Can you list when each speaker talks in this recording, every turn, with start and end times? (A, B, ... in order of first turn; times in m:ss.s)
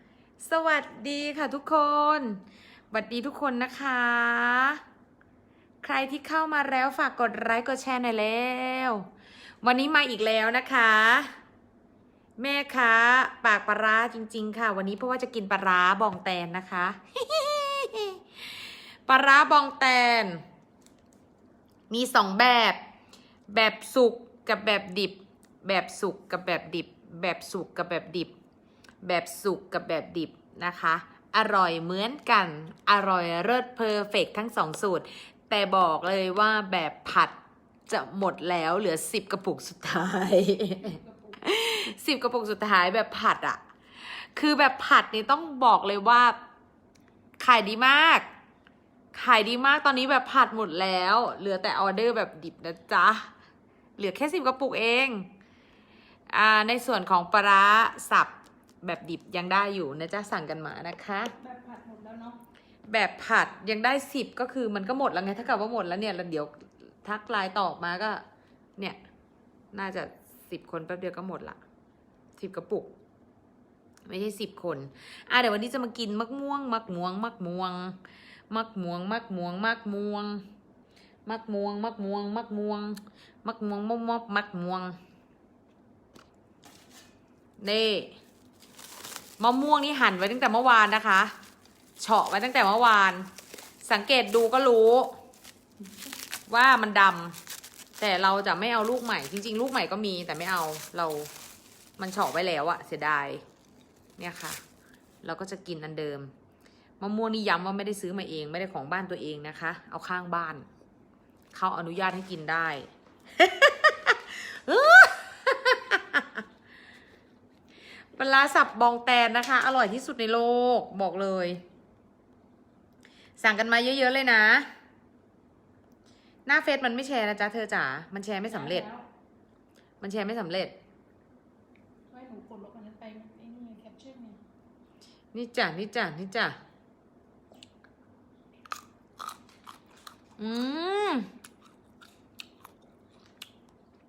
0:00.4-0:04.8 A
0:05.8-0:09.1 A
0:09.6-0:11.3 A
0:12.4-0:18.2 A
0:19.1-0:20.4 A
0:21.9-0:22.8 A
0:23.5-0:28.3 A
0:29.0-0:37.3 A
0:37.9-0:43.6 A
0:40.8-0:41.4 B
0:44.1-0:46.4 A
0:47.4-0:48.2 A
0:49.1-0:53.3 A
0:54.0-0:55.3 A
0:56.3-0:58.3 A
0:58.8-1:01.3 A
1:01.4-1:02.4 B
1:02.9-1:08.2 A
1:09.7-1:11.6 A
1:12.4-1:12.9 A
1:14.0-1:18.0 A
1:18.5-1:20.4 A
1:21.2-1:24.9 A
1:27.6-1:28.1 A
1:29.4-1:31.3 A
1:32.0-1:33.3 A
1:33.8-1:35.1 A
1:36.5-1:37.4 A
1:38.0-1:41.3 A
1:42.0-1:43.4 A
1:44.2-1:44.6 A
1:45.2-1:46.3 A
1:47.0-1:50.6 A
1:51.5-1:56.4 A
1:58.1-2:01.6 A
2:03.4-2:04.7 A
2:06.4-2:08.8 A
2:08.4-2:09.0 B
2:10.0-2:10.7 A
2:12.1-2:14.4 B
2:15.3-2:16.5 A
2:20.4-2:21.3 A